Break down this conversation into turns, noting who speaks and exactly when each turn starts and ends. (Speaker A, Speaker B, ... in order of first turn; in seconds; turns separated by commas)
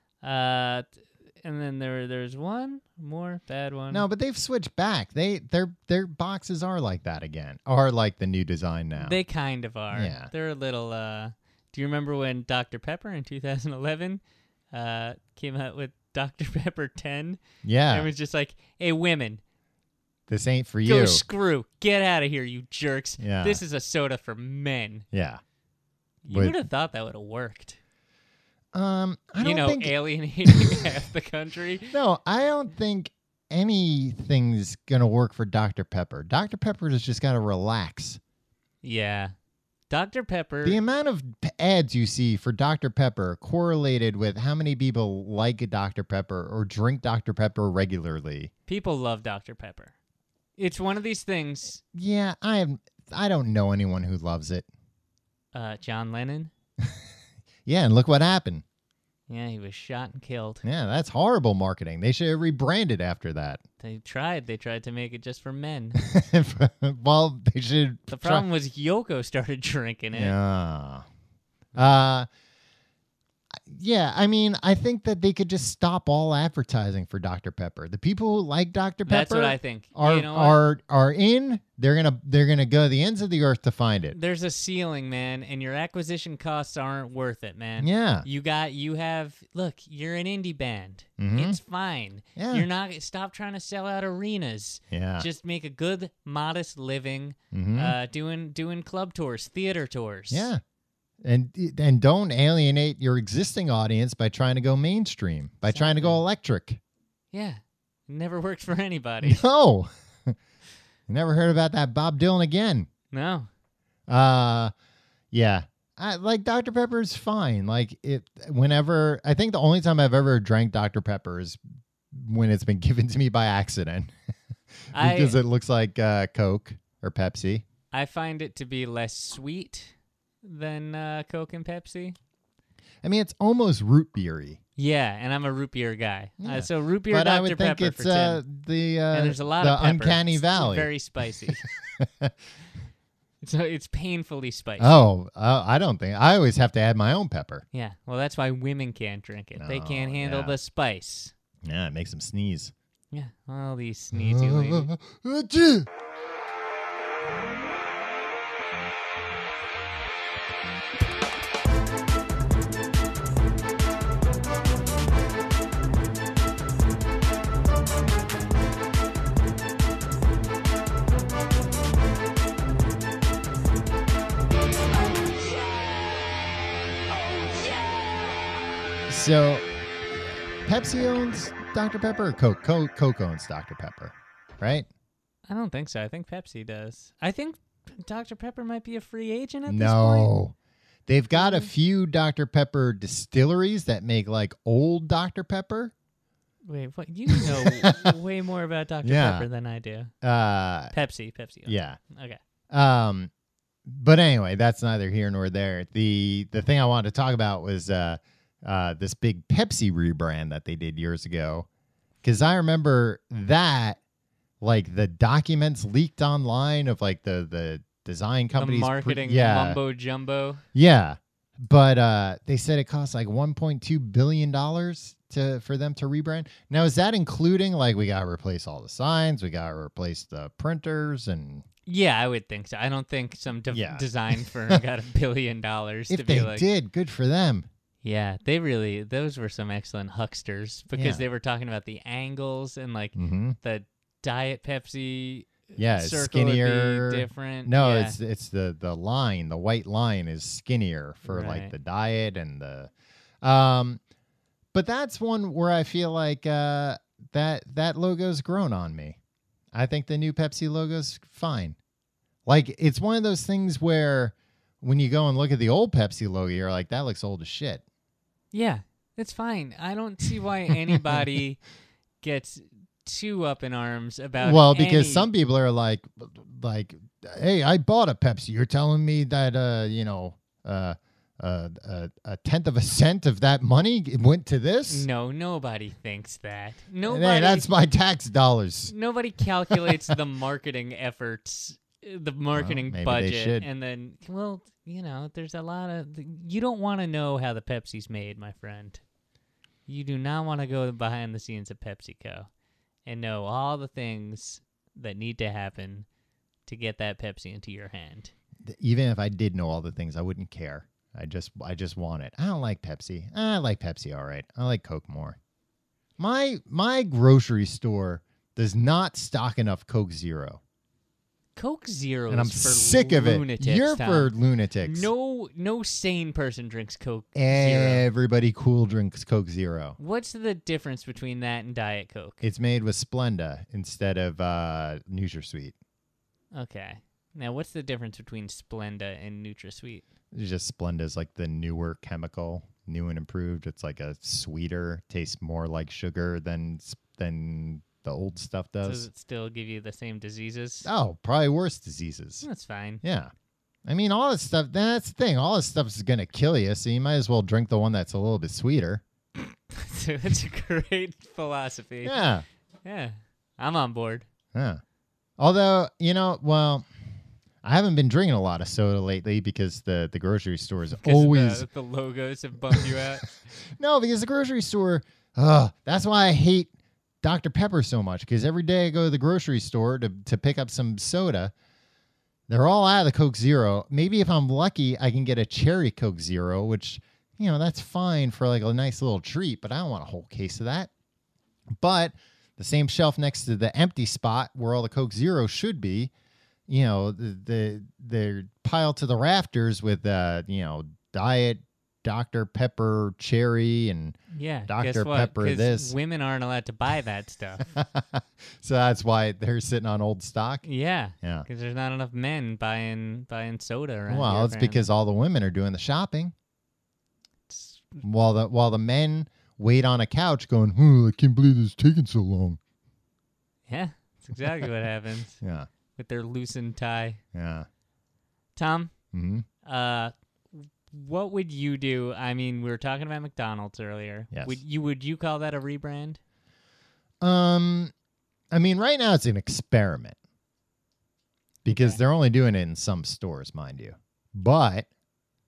Speaker A: 0.2-4.0, Speaker B: 3.9-9.2, Speaker A: 8.9-19.4, Speaker B: 9.9-10.3, Speaker B: 17.6-18.1, Speaker B: 20.3-21.2, Speaker A: 20.8-25.1, Speaker B: 23.2-23.6, Speaker B: 25.1-25.4, Speaker A: 26.2-27.8, Speaker B: 26.3-26.5, Speaker B: 28.7-29.9, Speaker A: 29.4-31.9, Speaker B: 30.4-30.8, Speaker B: 31.9-38.2, Speaker A: 38.8-39.3, Speaker A: 39.9-40.8, Speaker B: 40.6-48.5, Speaker A: 48.7-49.9, Speaker A: 50.6-51.8, Speaker B: 51.9-54.7, Speaker A: 55.5-56.5, Speaker B: 57.6-58.6, Speaker A: 59.3-60.6, Speaker B: 60.6-63.6, Speaker A: 63.8-66.0, Speaker B: 66.0-68.4, Speaker A: 68.1-70.3, Speaker B: 70.1-71.0, Speaker B: 71.7-72.3, Speaker B: 73.7-84.2, Speaker A: 79.0-80.6, Speaker A: 84.1-100.5, Speaker B: 87.8-88.2, Speaker B: 91.2-91.6, Speaker B: 92.4-92.7, Speaker B: 94.9-95.3, Speaker B: 97.5-97.9, Speaker B: 100.3-100.6, Speaker B: 101.2-106.8, Speaker A: 105.7-106.2, Speaker A: 107.3-109.4, Speaker B: 109.2-110.3, Speaker B: 111.1-112.9, Speaker A: 113.1-113.5, Speaker B: 114.1-114.7, Speaker B: 115.3-121.6, Speaker B: 122.1-124.1, Speaker B: 124.9-127.7, Speaker A: 124.9-125.4, Speaker A: 127.9-132.2, Speaker B: 133.0-134.6, Speaker A: 134.8-138.4, Speaker B: 136.4-140.9, Speaker A: 139.1-141.6, Speaker B: 141.5-142.3, Speaker A: 143.4-145.1, Speaker B: 144.8-147.6, Speaker A: 147.7-151.3, Speaker B: 149.6-150.5, Speaker B: 151.6-152.7, Speaker A: 153.1-154.9, Speaker B: 154.1-155.9, Speaker B: 179.1-179.7, Speaker B: 180.6-184.9, Speaker A: 185.5-190.3, Speaker B: 189.7-190.5, Speaker B: 191.1-195.9, Speaker A: 191.3-191.7, Speaker A: 196.7-200.1, Speaker B: 197.3-198.2, Speaker B: 199.0-199.5, Speaker B: 200.2-200.9, Speaker A: 200.9-202.4, Speaker B: 201.7-202.0, Speaker B: 202.7-203.3, Speaker B: 203.8-211.7, Speaker B: 212.2-214.0, Speaker B: 214.6-219.8, Speaker A: 218.5-220.6, Speaker B: 220.7-231.7, Speaker A: 231.8-236.7, Speaker B: 233.7-234.0, Speaker B: 236.1-237.7, Speaker A: 238.0-248.2, Speaker B: 240.9-241.2, Speaker B: 243.2-243.6, Speaker B: 245.8-252.9, Speaker A: 251.2-251.7, Speaker B: 253.4-254.0, Speaker B: 254.7-259.2, Speaker B: 259.7-261.8, Speaker B: 262.4-267.8, Speaker A: 268.5-271.6, Speaker A: 272.2-275.3, Speaker B: 274.4-285.1, Speaker A: 284.9-287.7, Speaker B: 287.1-288.9, Speaker A: 288.9-299.0, Speaker B: 289.7-290.1, Speaker B: 292.5-293.7, Speaker A: 299.9-302.5, Speaker A: 303.1-306.1, Speaker A: 306.7-308.3, Speaker B: 308.6-315.4, Speaker B: 316.2-320.6, Speaker A: 321.6-324.3, Speaker B: 322.3-325.1, Speaker A: 324.8-328.0, Speaker B: 327.3-330.0, Speaker A: 330.0-332.4, Speaker B: 332.4-335.7, Speaker A: 336.5-340.1, Speaker B: 340.3-349.1, Speaker A: 348.8-350.9, Speaker B: 350.8-352.4, Speaker A: 352.4-353.0, Speaker B: 353.0-353.3, Speaker B: 353.9-359.0, Speaker A: 359.4-362.2, Speaker B: 362.0-362.4, Speaker A: 362.8-364.2, Speaker B: 364.5-364.8, Speaker B: 365.4-366.9, Speaker B: 367.6-371.6, Speaker A: 371.0-373.3, Speaker B: 372.7-373.1, Speaker B: 373.6-376.7, Speaker B: 377.2-381.5, Speaker B: 382.5-390.9, Speaker B: 391.8-396.1, Speaker B: 396.7-404.2, Speaker A: 404.3-407.7, Speaker B: 404.7-405.9, Speaker B: 407.6-410.6, Speaker A: 410.6-414.8, Speaker B: 411.2-411.5, Speaker B: 414.1-416.3, Speaker A: 417.5-418.0, Speaker B: 418.0-422.6, Speaker A: 423.7-425.4, Speaker B: 425.4-425.7, Speaker A: 426.0-427.2, Speaker B: 427.3-427.7, Speaker A: 428.6-428.9, Speaker B: 429.1-429.4, Speaker A: 429.6-436.2, Speaker B: 434.3-434.6, Speaker B: 437.2-437.9, Speaker B: 438.5-440.2, Speaker B: 441.6-444.9, Speaker A: 441.7-442.0